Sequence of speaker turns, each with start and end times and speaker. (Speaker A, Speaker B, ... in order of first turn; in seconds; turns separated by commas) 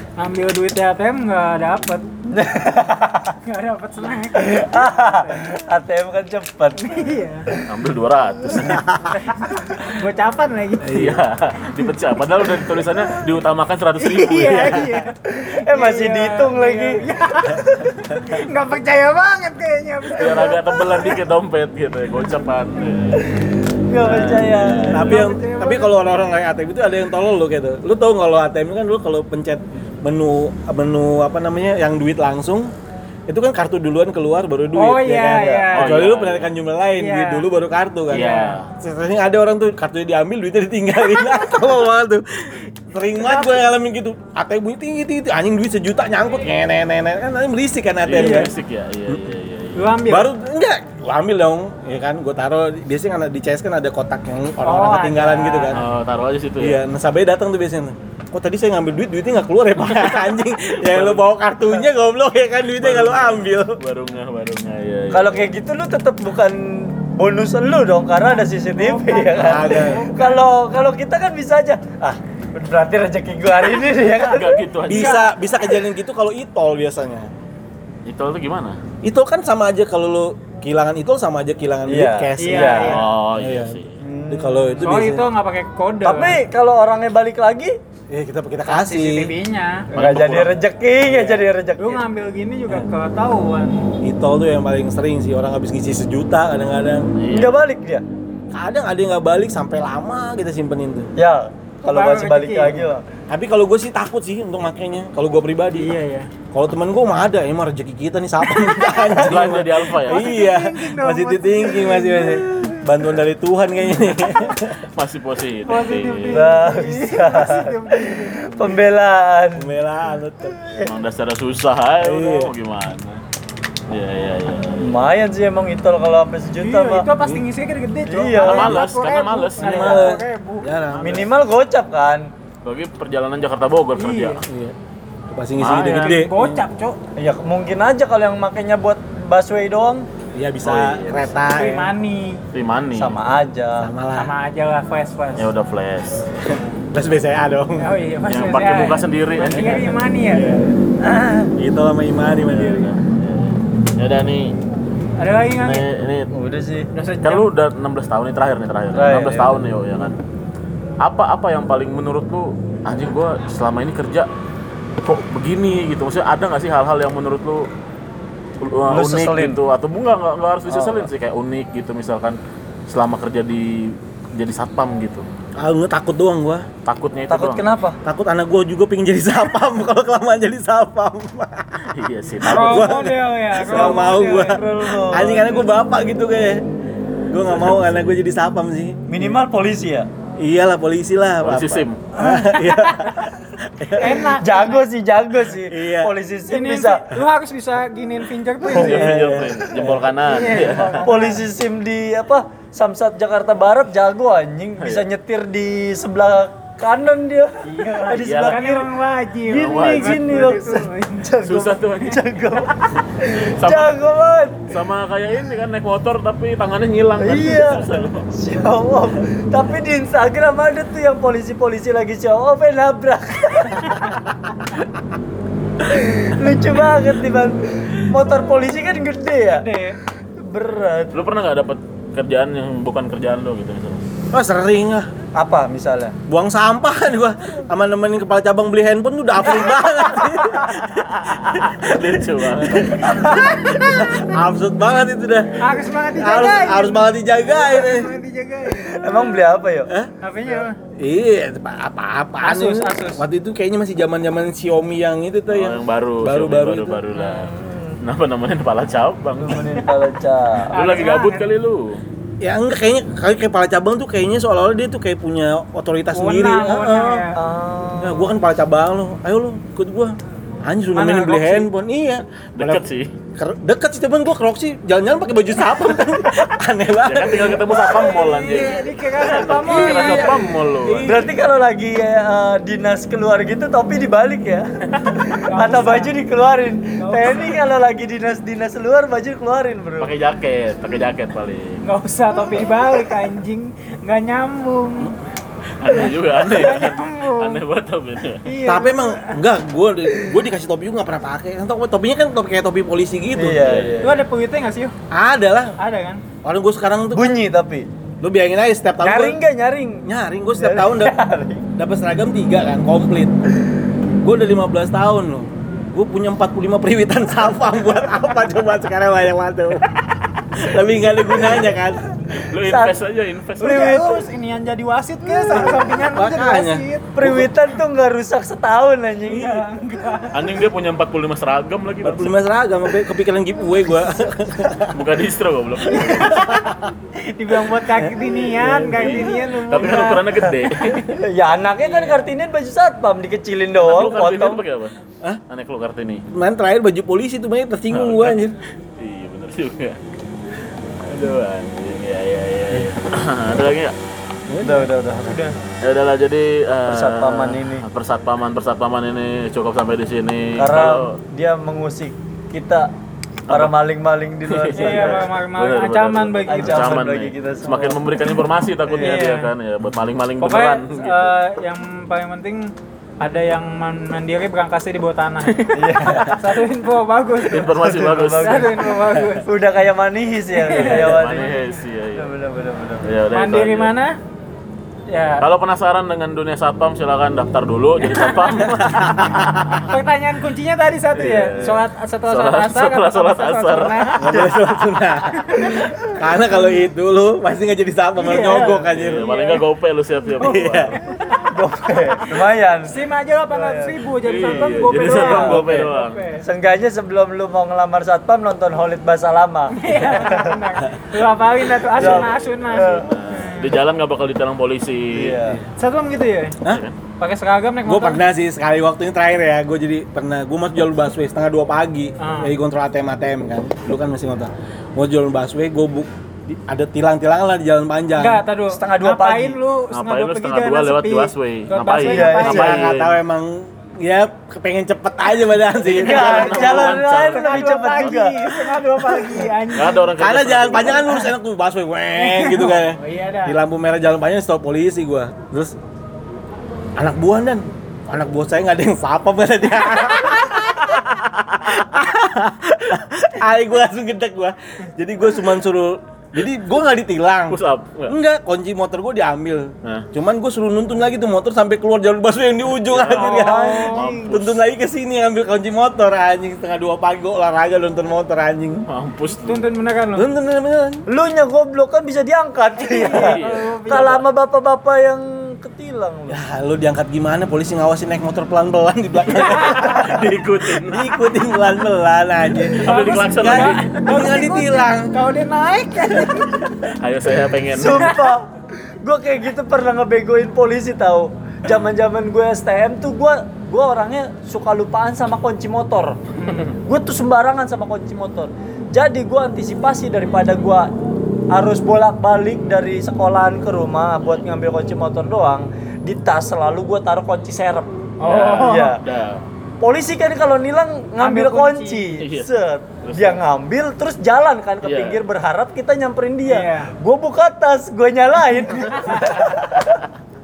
Speaker A: 0.2-2.0, Speaker B: 2.3-3.4, Speaker A: 3.5-5.5, Speaker B: 4.3-7.6, Speaker A: 6.8-7.5, Speaker C: 7.7-8.8, Speaker D: 8.5-9.2, Speaker A: 9.3-11.0, Speaker D: 10.8-11.2, Speaker C: 10.9-15.0, Speaker A: 14.0-21.2, Speaker B: 15.4-17.0, Speaker C: 20.1-25.2, Speaker B: 23.9-25.1, Speaker D: 24.9-32.7, Speaker A: 24.9-25.9, Speaker D: 33.3-48.5, Speaker A: 34.7-36.1, Speaker B: 35.3-35.6, Speaker C: 35.7-36.5, Speaker A: 37.0-37.5, Speaker C: 38.1-38.7, Speaker A: 38.1-38.5, Speaker A: 43.2-43.6, Speaker C: 48.0-50.0, Speaker A: 48.1-48.4, Speaker A: 49.7-50.3, Speaker D: 50.1-55.8, Speaker A: 54.6-55.8, Speaker C: 55.7-56.8, Speaker D: 56.6-63.8, Speaker C: 59.8-61.2, Speaker C: 62.7-65.5, Speaker B: 65.1-74.7, Speaker A: 68.2-70.5, Speaker D: 69.3-70.0, Speaker C: 74.2-75.2, Speaker D: 74.9-77.3, Speaker A: 74.9-75.3, Speaker C: 78.0-78.8, Speaker D: 79.0-85.3, Speaker B: 81.9-83.0, Speaker A: 82.4-83.0, Speaker C: 82.8-84.0, Speaker B: 84.0-84.9, Speaker A: 84.8-86.4, Speaker B: 86.0-87.8, Speaker D: 88.1-89.3, Speaker A: 88.7-90.0, Speaker C: 89.9-90.6, Speaker B: 89.9-92.0, Speaker D: 91.0-91.5, Speaker A: 91.8-93.8, Speaker D: 94.0-97.1, Speaker C: 97.1-97.6, Speaker B: 97.3-98.0, Speaker D: 98.5-101.1, Speaker B: 101.2-103.0, Speaker A: 101.8-102.9, Speaker D: 103.3-105.9, Speaker A: 105.7-106.3, Speaker D: 106.5-114.8, Speaker B: 108.6-109.6, Speaker C: 109.2-110.3, Speaker A: 110.0-112.8, Speaker C: 114.9-116.5, Speaker A: 115.7-118.8, Speaker B: 116.3-119.7, Speaker D: 119.5-120.5, Speaker B: 120.6-120.9, Speaker C: 120.8-123.2, Speaker D: 122.0-122.5, Speaker C: 123.9-125.0, Speaker B: 124.8-127.1, Speaker A: 126.6-131.3, Speaker B: 128.1-128.8, Speaker C: 128.4-130.1, Speaker D: 129.6-131.3, Speaker B: 131.0-132.3, Speaker C: 132.6-134.4, Speaker A: 133.9-134.4, Speaker D: 134.5-134.7, Speaker D: 135.3-136.6, Speaker C: 135.6-136.2, Speaker A: 135.9-137.0, Speaker B: 137.2-140.1, Speaker D: 140.3-141.9, Speaker C: 140.6-141.4, Speaker A: 141.5-142.4, Speaker C: 142.5-143.2, Speaker B: 142.9-143.9, Speaker D: 143.8-144.3, Speaker A: 144.1-145.5, Speaker C: 145.3-146.3, Speaker D: 146.4-147.9, Speaker A: 147.8-150.6, Speaker C: 148.2-150.0, Speaker D: 150.3-150.8, Speaker B: 151.0-151.5, Speaker D: 151.6-152.9, Speaker A: 152.6-152.8, Speaker C: 152.6-154.6, Speaker A: 155.2-155.8, Speaker C: 155.6-156.3, Speaker B: 156.3-156.9, Speaker A: 156.9-157.5, Speaker C: 157.2-160.2, Speaker B: 158.9-159.6, Speaker C: 161.0-164.3, Speaker C: 165.0-167.7, Speaker C: 168.6-175.2, Speaker B: 168.9-169.6, Speaker B: 170.7-171.1, Speaker D: 175.6-176.7, Speaker C: 176.8-177.6, Speaker B: 177.3-178.0, Speaker D: 178.0-181.9, Speaker C: 181.8-182.9, Speaker D: 182.4-186.6, Speaker A: 182.4-184.6, Speaker B: 183.6-185.7, Speaker D: 187.3-189.4, Speaker B: 189.1-190.1, Speaker D: 190.4-194.4, Speaker C: 191.4-192.0, Speaker A: 192.2-193.1, Speaker A: 194.0-194.9, Speaker B: 194.4-197.0, Speaker D: 195.7-196.1, Speaker A: 196.5-199.1, Speaker B: 198.7-199.0, Speaker C: 198.7-201.1, Speaker D: 198.8-200.2, Speaker A: 200.2-201.4, Speaker B: 201.0-208.9, Speaker C: 204.8-205.1, Speaker A: 207.7-211.3, Speaker C: 208.1-208.6, Speaker B: 209.5-214.7, Speaker C: 209.5-210.5, Speaker C: 211.4-214.0, Speaker C: 214.7-218.2, Speaker B: 217.2-224.3, Speaker B: 225.8-229.7, Speaker A: 229.5-230.0, Speaker B: 230.4-231.1, Speaker C: 231.1-234.0, Speaker D: 234.3-235.1, Speaker B: 235.3-236.1, Speaker D: 236.3-248.2, Speaker C: 240.8-243.0, Speaker B: 242.8-243.6, Speaker A: 243.2-244.3, Speaker A: 245.6-249.4, Speaker B: 248.8-249.9, Speaker A: 250.2-250.8, Speaker D: 250.8-257.0, Speaker A: 252.4-253.2, Speaker C: 255.5-259.7, Speaker B: 257.1-258.0, Speaker B: 259.4-260.7, Speaker A: 260.7-261.4, Speaker C: 260.7-262.0, Speaker D: 262.4-267.3, Speaker A: 266.1-267.4, Speaker B: 267.3-268.3, Speaker D: 267.9-272.8, Speaker A: 270.9-271.7, Speaker C: 272.6-273.1, Speaker D: 273.4-281.4, Speaker C: 277.0-281.2, Speaker A: 278.3-280.5, Speaker B: 281.0-290.1, Speaker A: 285.3-286.1, Speaker A: 287.0-287.6, Speaker C: 290.0-291.8, Speaker A: 291.8-295.1, Speaker C: 295.8-298.4, Speaker A: 296.3-297.6, Speaker A: 298.4-299.4, Speaker D: 298.6-303.9, Speaker B: 303.3-304.2, Speaker C: 303.6-304.1, Speaker A: 304.0-304.9, Speaker D: 305.1-305.8, Speaker A: 305.8-306.2, Speaker D: 306.4-307.4, Speaker B: 307.1-307.9, Speaker D: 308.2-309.4, Speaker B: 309.0-311.6, Speaker D: 310.0-311.1, Speaker D: 311.8-313.3, Speaker D: 314.2-319.9, Speaker D: 320.5-322.4, Speaker C: 322.5-324.0, Speaker B: 322.6-323.0, Speaker B: 323.6-324.2, Speaker A: 323.6-327.1, Speaker D: 325.5-327.5, Speaker B: 327.1-329.6, Speaker A: 329.2-330.5, Speaker C: 330.3-332.3, Speaker D: 332.0-335.0, Speaker C: 334.9-336.4, Speaker A: 335.9-340.3, Speaker D: 336.1-336.9, Speaker C: 338.5-341.2, Speaker D: 338.7-339.1, Speaker B: 341.0-344.6, Speaker C: 343.8-344.9, Speaker C: 345.5-346.2, Speaker D: 346.3-348.6, Speaker C: 347.9-348.4, Speaker C: 349.0-350.0, Speaker C: 351.0-353.9, Speaker D: 354.5-354.9, Speaker B: 354.6-355.5, Speaker A: 355.2-355.5, Speaker C: 355.8-361.1, Speaker B: 356.9-357.8, Speaker B: 360.6-362.9, Speaker C: 363.5-363.7, Speaker B: 363.5-365.3, Speaker C: 364.5-371.3, Speaker A: 364.7-367.1, Speaker B: 366.5-368.0, Speaker B: 368.9-369.2, Speaker A: 369.0-369.5, Speaker A: 370.4-377.8, Speaker C: 375.4-376.2, Speaker B: 375.7-376.6, Speaker D: 376.0-376.4, Speaker C: 377.4-378.7, Speaker B: 377.6-381.6, Speaker A: 378.4-379.5, Speaker A: 380.5-381.2, Speaker C: 380.7-382.3, Speaker B: 382.1-383.0, Speaker C: 383.0-383.9, Speaker A: 383.3-384.1, Speaker A: 385.1-385.4, Speaker C: 385.4-389.9, Speaker A: 388.0-389.0, Speaker D: 388.8-389.6, Speaker A: 389.9-394.6, Speaker C: 391.1-394.2, Speaker D: 394.2-399.3, Speaker B: 394.2-395.0, Speaker B: 395.5-395.9, Speaker A: 398.1-399.6, Speaker C: 398.8-401.1, Speaker D: 400.4-400.9, Speaker A: 400.4-401.5, Speaker B: 401.4-402.9, Speaker A: 402.3-406.4, Speaker B: 403.5-405.9, Speaker C: 404.2-406.2, Speaker B: 406.4-410.6, Speaker A: 409.7-413.8, Speaker B: 412.0-413.1, Speaker D: 412.0-412.2, Speaker C: 412.0-415.5, Speaker B: 415.1-415.6, Speaker A: 415.8-416.6, Speaker C: 416.6-417.0, Speaker A: 417.2-418.2, Speaker D: 417.8-428.4, Speaker A: 422.2-422.5, Speaker A: 428.1-432.8, Speaker B: 428.7-429.6, Speaker C: 429.9-433.2, Speaker B: 432.0-432.8, Speaker D: 432.4-436.7, Speaker C: 435.8-437.9, Speaker B: 435.9-438.6, Speaker A: 436.0-440.1, Speaker C: 439.7-441.1, Speaker D: 440.1-445.7, Speaker A: 440.7-441.3, Speaker A: 442.1-443.6, Speaker D: 447.0-468.8, Speaker C: 451.1-451.9, Speaker C: 457.5-458.1, Speaker C: 462.8-464.6, Speaker A: 463.1-464.3, Speaker C: 468.9-469.7, Speaker A: 469.4-470.3, Speaker D: 470.1-471.0, Speaker B: 471.1-476.4, Speaker A: 472.8-474.2, Speaker C: 473.0-474.2, Speaker D: 476.3-485.2, Speaker C: 479.3-481.1, Speaker A: 479.5-479.9, Speaker A: 482.6-486.7, Speaker C: 482.8-484.0, Speaker C: 486.8-488.1, Speaker B: 487.7-500.9, Speaker A: 487.9-488.2, Speaker A: 496.4-496.7, Speaker C: 496.4-496.7, Speaker B: 501.5-509.0, Speaker A: 508.2-508.9, Speaker C: 508.2-509.4, Speaker B: 509.8-520.0, Speaker A: 511.2-512.2, Speaker C: 512.2-513.4, Speaker C: 514.8-515.2, Speaker A: 516.4-516.9, Speaker A: 518.5-519.5